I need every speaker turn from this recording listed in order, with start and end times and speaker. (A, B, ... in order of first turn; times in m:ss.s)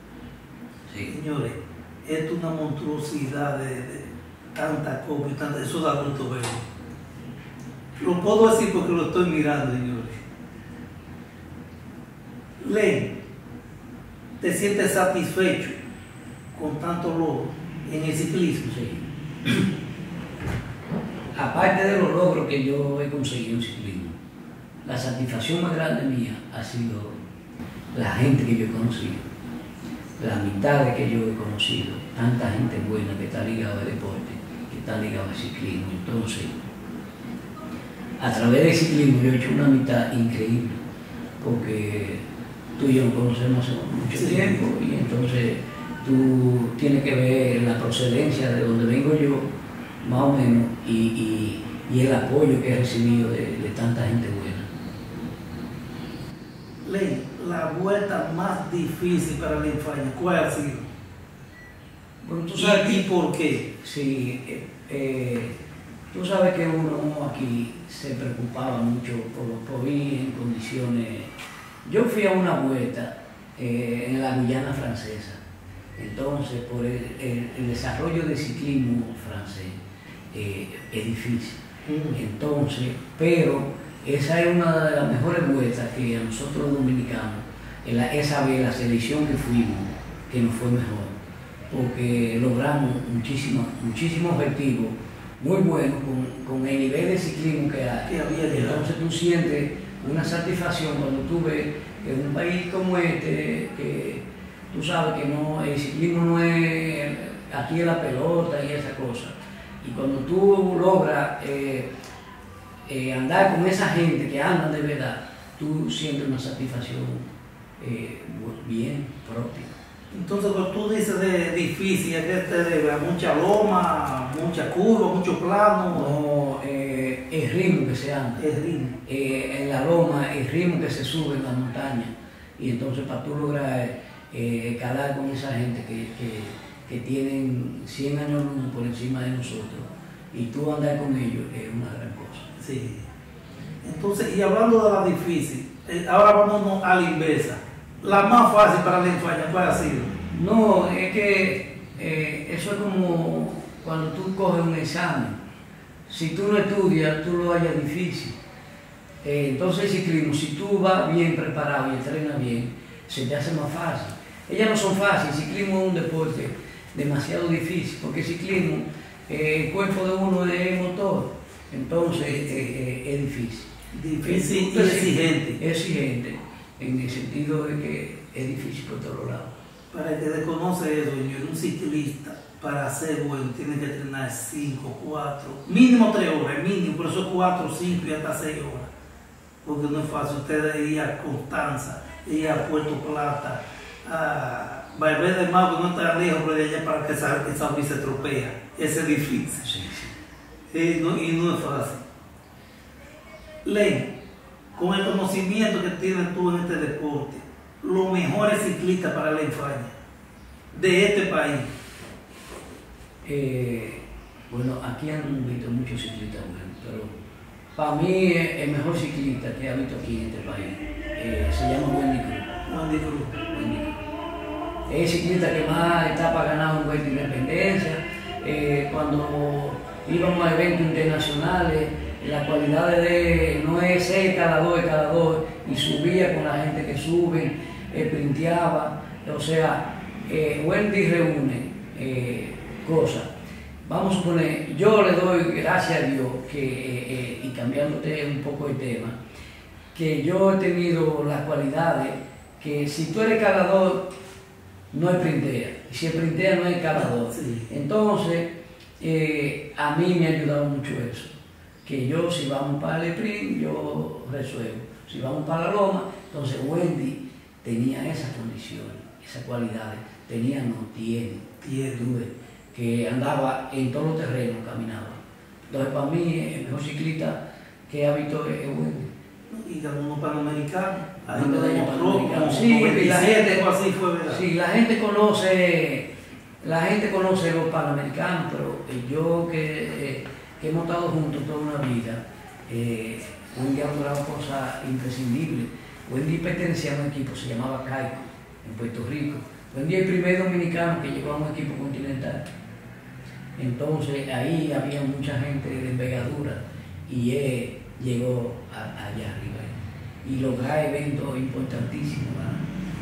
0:01.1-0:06.6 A
0:08.0-0:10.2 A
0:12.6-0:13.1 A
0:14.4-0:15.8 A
0:16.5-0:18.7 A
0:18.7-0:19.6 B
0:21.3-0:24.2 B
0:24.8-0:27.2 B
0:27.9-0:29.2 B
0:30.2-0:36.6 B
0:38.2-0:40.8 B
0:41.4-0:42.2 B
0:42.8-0:49.4 B
0:44.1-0:44.6 A
0:50.0-0:54.7 B
0:56.8-1:00.9 A
1:02.2-1:03.1 B
1:02.6-1:03.7 A
1:03.8-1:05.6 B
1:06.1-1:11.3 B
1:11.8-1:15.4 B
1:16.0-1:19.8 B
1:20.3-1:21.6 B
1:21.8-1:22.2 A
1:22.1-1:31.1 B
1:31.7-1:51.9 B
1:38.1-1:38.8 A
1:52.9-1:57.3 B
1:57.8-1:59.7 B
2:00.1-2:06.1 A
2:05.9-2:08.4 B
2:08.4-2:09.0 A
2:09.0-2:22.5 B
2:22.6-2:23.1 A
2:23.8-2:30.1 A
2:30.3-2:35.4 B
2:36.1-2:38.4 B
2:39.2-2:53.7 B
2:52.1-2:52.7 A
2:53.9-2:55.6 A
2:54.2-2:59.5 B
2:59.9-3:08.9 A
3:09.6-3:19.6 A
3:19.6-3:20.1 B
3:20.7-3:22.0 A
3:23.6-3:24.1 A
3:24.7-3:29.9 A
3:30.7-3:31.7 A
3:33.2-3:37.1 B
3:37.8-3:42.6 B
3:42.7-3:43.4 A
3:43.5-3:44.0 B
3:44.9-4:03.3 B
4:03.8-4:09.2 B
4:09.9-4:14.1 B
4:14.9-4:21.3 B
4:17.3-4:17.7 A
4:21.8-4:37.4 B
4:31.6-4:32.0 A
4:37.9-4:39.1 B
4:39.5-4:44.4 A
4:41.3-4:43.6 B
4:44.3-4:46.1 B
4:46.6-5:02.4 B
5:03.6-5:12.6 B